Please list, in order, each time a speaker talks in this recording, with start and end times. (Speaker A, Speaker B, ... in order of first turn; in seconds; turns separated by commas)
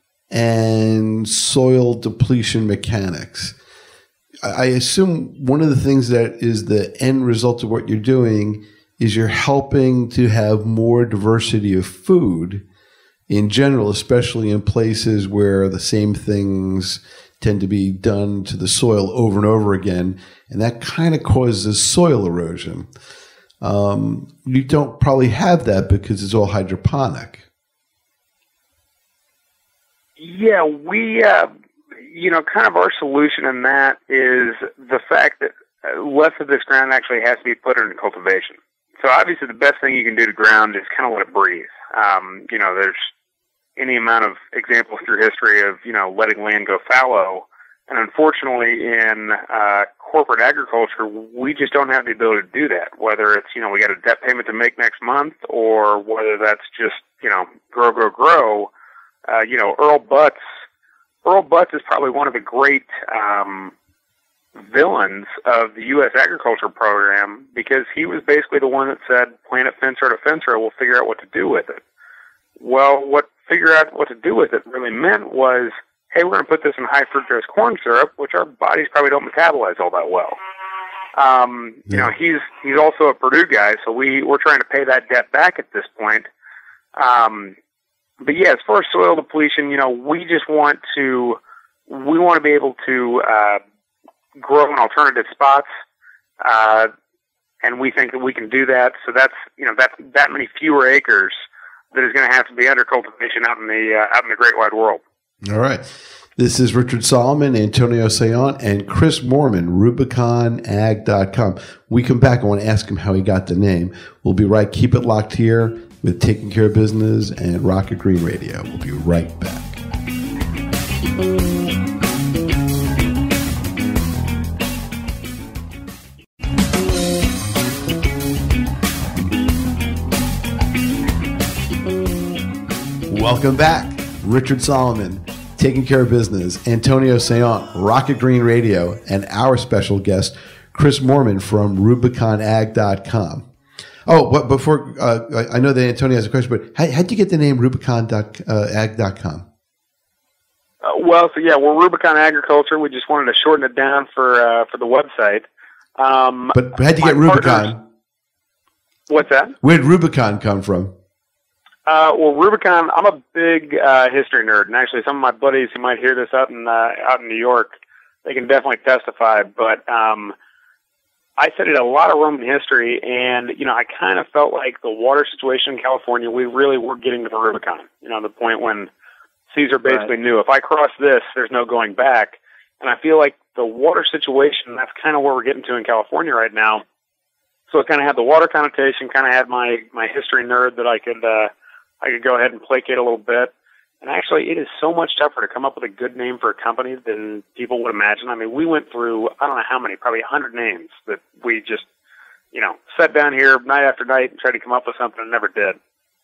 Speaker A: 0.3-3.5, Speaker A: 4.4-12.6, Speaker A: 13.3-22.9, Speaker A: 23.6-27.4, Speaker B: 30.2-31.5, Speaker B: 32.0-43.1, Speaker B: 43.8-58.7, Speaker B: 59.3-60.4, Speaker B: 61.2-63.7, Speaker B: 64.7-71.8, Speaker B: 72.6-80.4, Speaker B: 81.2-86.3, Speaker B: 87.0-87.6, Speaker B: 88.2-93.6, Speaker B: 94.4-95.7, Speaker B: 96.4-96.9, Speaker B: 97.6-101.4, Speaker B: 101.9-105.0, Speaker A: 105.4-119.8, Speaker A: 133.1-143.5, Speaker A: 144.1-149.5, Speaker B: 150.8-155.5, Speaker B: 156.0-157.7, Speaker A: 156.5-157.8, Speaker B: 159.1-159.6, Speaker A: 159.6-160.9, Speaker B: 161.9-170.3, Speaker B: 171.4-178.9, Speaker B: 179.5-186.8, Speaker B: 187.7-201.9, Speaker B: 202.5-205.8